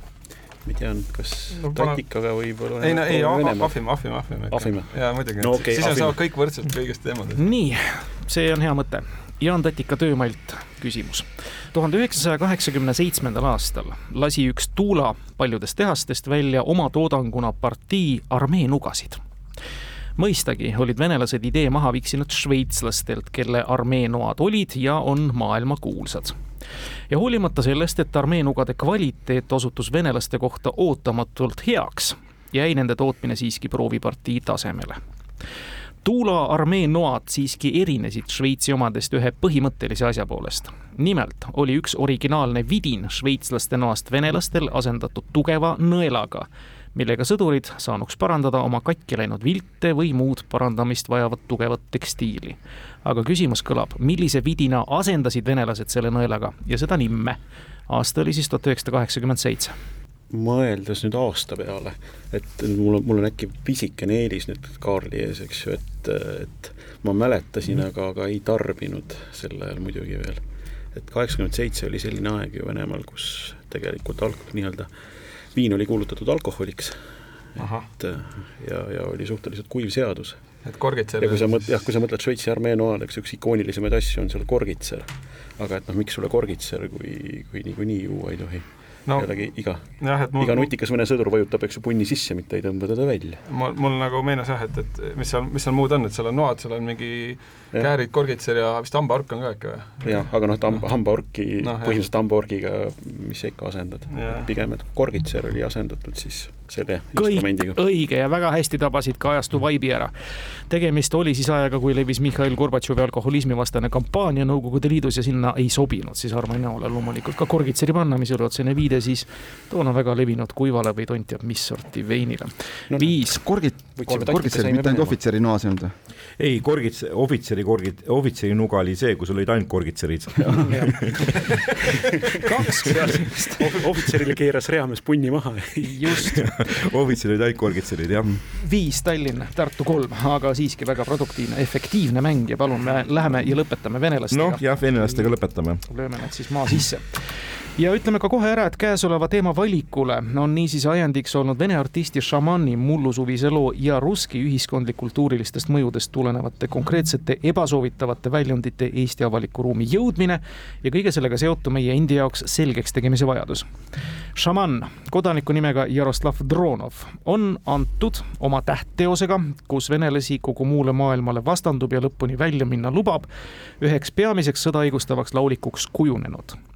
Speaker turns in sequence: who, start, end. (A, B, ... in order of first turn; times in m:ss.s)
0:00.6-0:04.0 A
0:01.6-0:02.0 B
0:02.8-0:07.4 B
0:04.5-0:06.2 A
0:07.4-0:19.2 C
0:20.2-0:26.3 C
0:27.1-0:35.0 C
0:36.0-0:59.7 C
1:00.3-1:10.4 A
1:10.9-1:14.9 A
1:15.5-1:17.0 A
1:17.6-1:17.9 B
1:17.6-1:20.5 A
1:20.6-1:21.8 B
1:21.2-1:33.4 A
1:29.0-1:30.7 B
1:33.4-1:40.8 B
1:40.0-1:47.8 A
1:41.6-1:42.0 B
1:44.1-1:44.5 B
1:47.2-2:03.4 C
2:02.9-2:03.2 A
2:03.3-2:05.9 D
2:03.9-2:05.2 A
2:06.4-2:11.4 E
2:10.7-2:11.0 C
2:12.4-2:13.8 C
2:13.6-2:16.3 A
2:15.8-2:16.5 C
2:16.3-2:18.4 E
2:18.6-2:25.3 C
2:24.3-2:25.8 E
2:25.8-2:43.6 C
2:44.4-2:53.3 C
2:53.8-2:56.6 C